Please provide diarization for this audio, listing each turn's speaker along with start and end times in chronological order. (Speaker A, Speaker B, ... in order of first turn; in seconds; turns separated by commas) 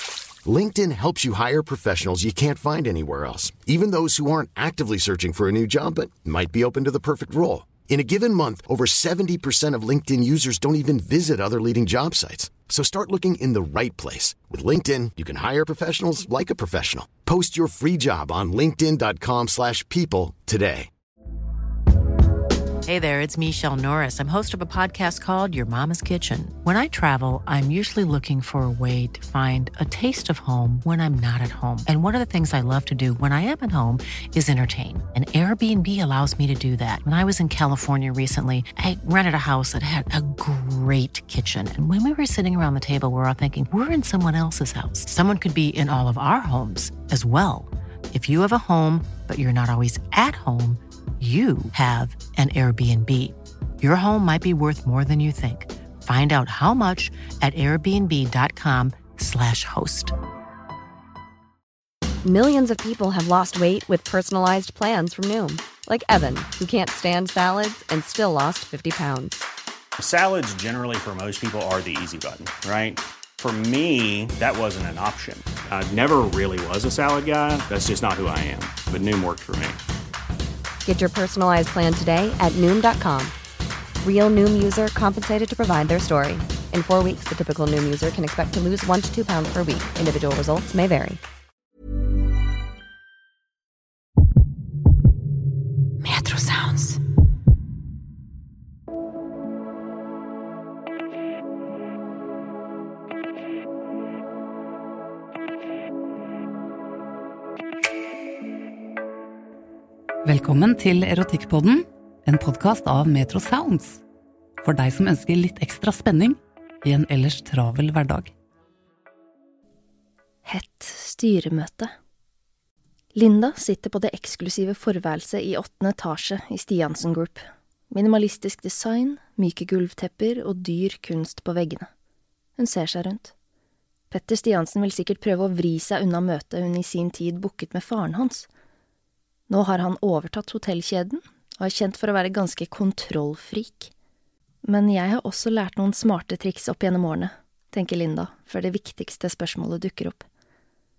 Speaker A: 0.5-20.9, Speaker B: 22.9-60.1, Speaker C: 62.2-69.4, Speaker D: 70.0-79.8, Speaker C: 80.8-83.3, Speaker C: 84.0-91.2, Speaker E: 96.0-97.0, Speaker E: 110.2-114.0, Speaker E: 114.6-118.3, Speaker F: 120.5-121.9, Speaker F: 123.1-131.9, Speaker F: 132.6-133.3, Speaker F: 134.1-138.5, Speaker F: 139.5-143.9, Speaker F: 144.6-150.2